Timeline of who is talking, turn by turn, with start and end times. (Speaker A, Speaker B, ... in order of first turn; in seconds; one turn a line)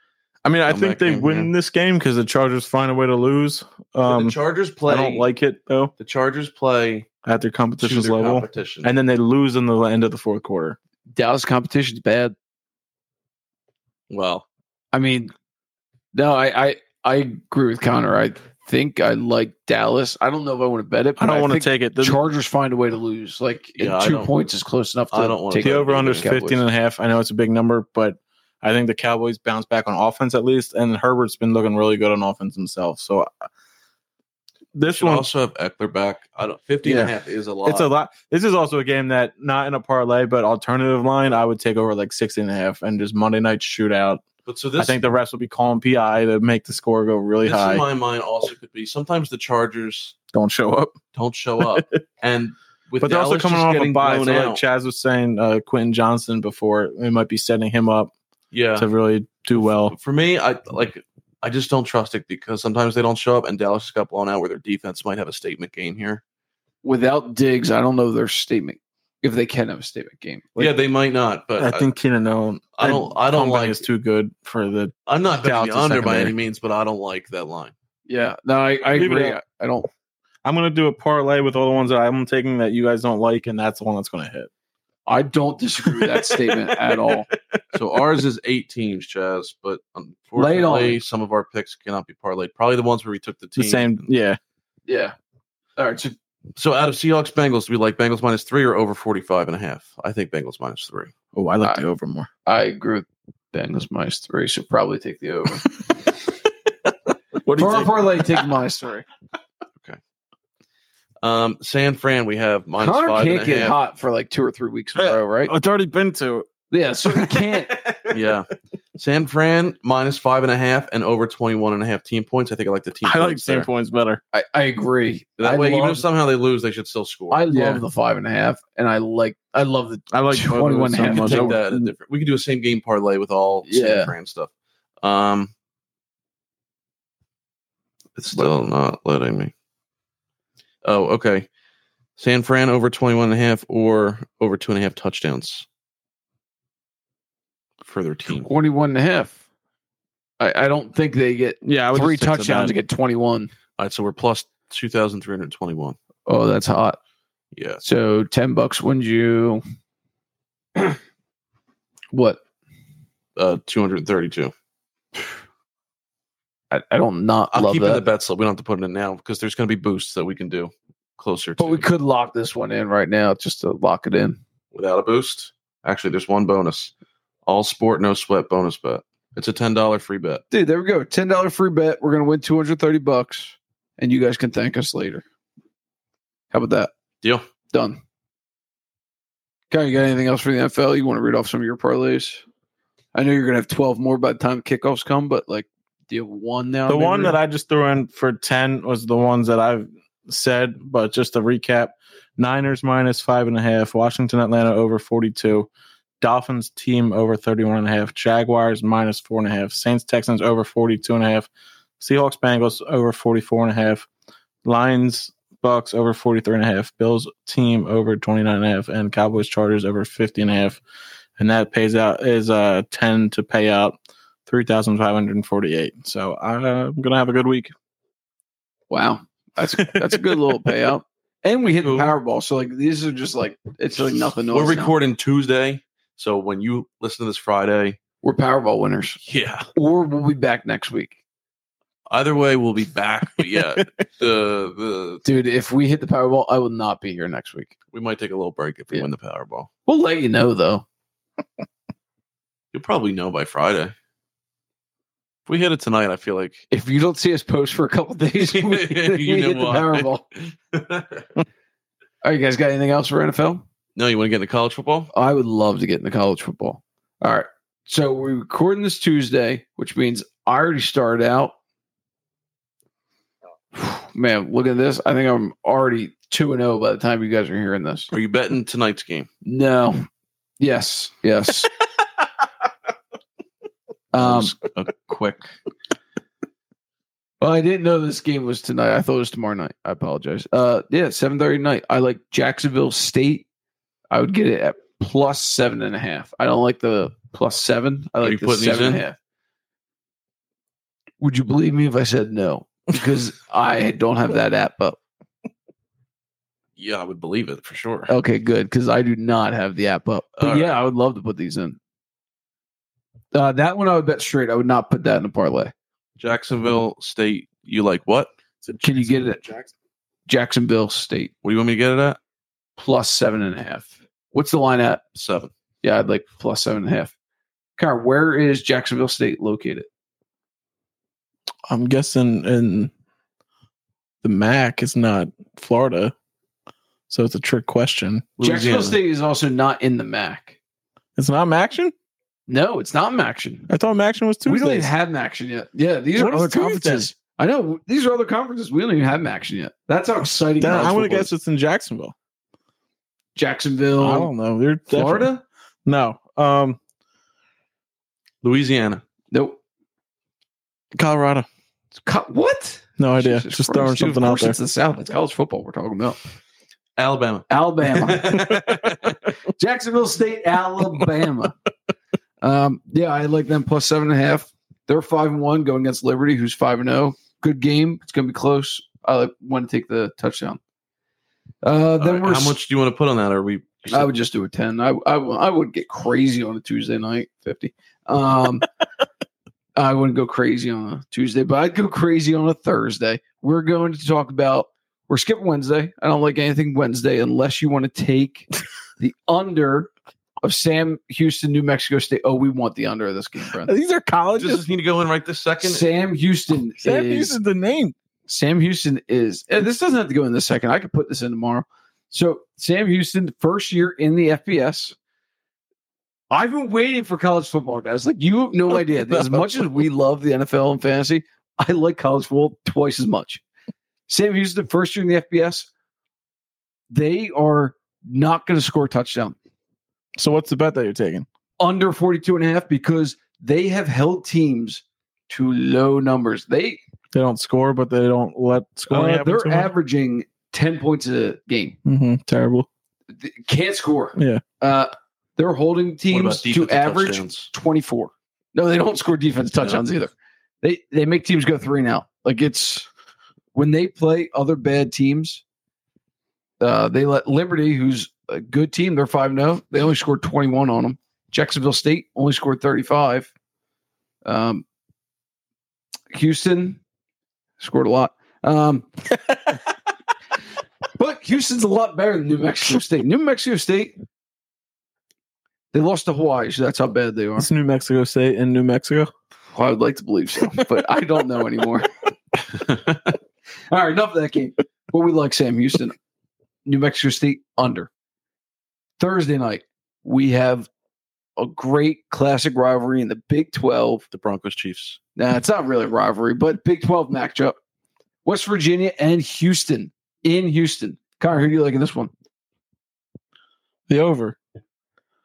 Speaker A: 0.4-4.3
Speaker B: 0.7-1.5
Speaker B: 4.0-5.3
Speaker A: 4.9-5.9
Speaker B: 6.0-7.1
Speaker A: 7.2-10.8
Speaker B: 7.8-8.9
Speaker C: 11.1-12.3
Speaker B: 14.1-14.4
Speaker C: 14.9-15.3
Speaker C: 16.1-26.6
Speaker A: 21.2-22.2
Speaker B: 23.8-24.3
Speaker B: 25.1-26.3
Speaker A: 25.6-33.3
Speaker A: 34.7-35.2
Speaker B: 34.9-37.9
Speaker A: 36.8-37.1
Speaker A: 37.6-44.2
Speaker B: 44.5-45.0
Speaker A: 44.8-47.8
Speaker B: 47.4-50.2
Speaker A: 50.3-51.0
Speaker B: 51.1-54.6
Speaker A: 51.6-52.0
Speaker A: 53.0-58.1
Speaker B: 58.5-58.9
Speaker A: 58.8-59.9
Speaker B: 59.5-66.2
Speaker C: 66.8-70.7
Speaker B: 70.6-71.9
Speaker A: 71.6-76.3
Speaker B: 72.8-73.8
Speaker B: 75.1-77.7
Speaker C: 78.1-79.9
Speaker A: 78.9-79.4
Speaker A: 80.4-84.5
Speaker C: 85.1-87.3
Speaker A: 85.8-87.2
Speaker B: 87.7-94.1
Speaker C: 90.3-91.0
Speaker A: 93.6-94.4
Speaker C: 94.9-95.1
Speaker C: 95.8-96.1
Speaker B: 96.5-101.1
Speaker A: 101.3-102.3
Speaker C: 102.5-105.8
Speaker A: 107.4-108.5
Speaker C: 107.5-109.0
Speaker B: 111.2-113.8
Speaker C: 112.8-115.5
Speaker A: 115.0-116.5
Speaker C: 116.7-117.8
Speaker A: 117.0-118.2
Speaker B: 118.1-123.7
Speaker A: 123.0-124.2
Speaker C: 124.3-126.0
Speaker B: 125.4-127.5
Speaker C: 127.3-131.7
Speaker A: 127.5-127.8
Speaker A: 130.1-131.6
Speaker B: 131.0-134.5
Speaker C: 133.7-134.1
Speaker B: 135.0-135.5
Speaker B: 138.2-139.5
Speaker B: 140.8-141.5
Speaker B: 142.2-145.7
Speaker B: 147.8-148.5
Speaker C: 148.3-149.3
Speaker C: 150.4-153.5
Speaker A: 151.6-152.7
Speaker B: 153.8-156.0
Speaker C: 156.2-157.0
Speaker B: 157.5-157.8
Speaker C: 157.8-159.6
Speaker C: 162.1-162.4
Speaker B: 163.3-164.5
Speaker C: 166.7-168.0
Speaker B: 167.5-171.8
Speaker C: 171.6-174.4
Speaker B: 174.7-176.9
Speaker B: 177.4-180.4
Speaker C: 180.5-185.2
Speaker C: 186.5-186.9
Speaker C: 187.7-188.0
Speaker C: 189.7-192.4
Speaker C: 193.1-197.4
Speaker A: 196.9-205.7
Speaker A: 206.2-211.5
Speaker A: 212.0-214.1
Speaker A: 214.6-220.8
Speaker A: 221.4-227.7
Speaker C: 228.9-234.9
Speaker A: 229.8-230.6
Speaker B: 231.8-232.1
Speaker B: 234.5-238.0
Speaker C: 238.2-239.2
Speaker B: 239.2-239.7
Speaker C: 239.7-241.2
Speaker B: 242.1-245.2
Speaker C: 245.2-247.7
Speaker B: 247.9-249.7
Speaker C: 249.9-250.8
Speaker B: 252.7-253.9
Speaker B: 255.5-256.6
Speaker C: 256.7-260.2
Speaker B: 258.4-261.3
Speaker C: 262.2-263.6
Speaker B: 263.9-265.1
Speaker C: 265.1-271.5
Speaker C: 273.7-278.1
Speaker B: 278.1-279.3
Speaker C: 279.4-280.1
Speaker C: 280.6-281.7
Speaker C: 284.1-284.5
Speaker B: 284.2-285.5
Speaker C: 287.4-293.4
Speaker C: 294.1-299.1
Speaker B: 298.2-299.0
Speaker C: 301.2-305.0
Speaker B: 306.8-308.1
Speaker C: 308.1-311.8
Speaker B: 310.4-310.7
Speaker C: 313.3-315.7
Speaker B: 316.2-318.3
Speaker A: 318.6-319.7
Speaker C: 318.8-319.4
Speaker C: 320.3-321.3
Speaker B: 321.4-322.2
Speaker C: 322.8-325.0
Speaker B: 325.1-325.5
Speaker C: 325.8-327.1
Speaker C: 327.8-329.9
Speaker A: 331.7-332.9
Speaker A: 334.2-336.1
Speaker A: 337.1-338.3
Speaker B: 338.4-339.0
Speaker C: 338.4-340.5
Speaker A: 341.1-341.9
Speaker C: 342.5-343.7
Speaker A: 343.7-344.9
Speaker C: 344.4-351.3
Speaker A: 346.2-347.1
Speaker A: 350.6-352.1
Speaker C: 353.4-354.3
Speaker A: 354.0-355.3
Speaker C: 354.9-355.4
Speaker A: 355.9-356.8
Speaker B: 358.4-359.0
Speaker C: 359.3-359.6
Speaker A: 360.9-361.4
Speaker C: 362.0-366.2
Speaker A: 363.0-364.6
Speaker B: 367.0-369.2
Speaker C: 367.5-368.5
Speaker C: 369.5-371.5
Speaker C: 372.4-380.6
Speaker C: 381.6-382.6
Speaker B: 382.0-384.1
Speaker C: 383.9-388.7
Speaker C: 389.8-398.5
Speaker C: 399.0-399.9
Speaker C: 400.4-403.7
Speaker A: 403.5-404.6
Speaker B: 404.4-405.8
Speaker C: 405.6-407.4
Speaker A: 406.8-407.9
Speaker C: 408.3-414.9
Speaker C: 416.3-423.4
Speaker C: 424.1-425.7
Speaker C: 426.9-429.4
Speaker A: 430.2-431.2
Speaker C: 431.6-436.8
Speaker A: 437.1-439.7
Speaker C: 438.9-441.8
Speaker A: 441.8-442.7
Speaker C: 443.1-450.1
Speaker A: 444.1-444.4
Speaker B: 446.1-447.5
Speaker C: 450.6-452.9
Speaker C: 453.5-455.4
Speaker C: 456.6-463.3
Speaker C: 464.2-464.6
Speaker C: 466.1-466.8
Speaker C: 467.6-468.9
Speaker C: 471.0-473.9
Speaker C: 475.7-477.5
Speaker A: 477.4-479.1
Speaker C: 479.5-481.9
Speaker C: 483.7-485.9
Speaker C: 486.6-487.9
Speaker C: 489.0-490.7
Speaker C: 491.4-494.0
Speaker B: 494.1-495.0
Speaker C: 495.1-497.6
Speaker C: 498.2-502.1
Speaker A: 503.9-504.4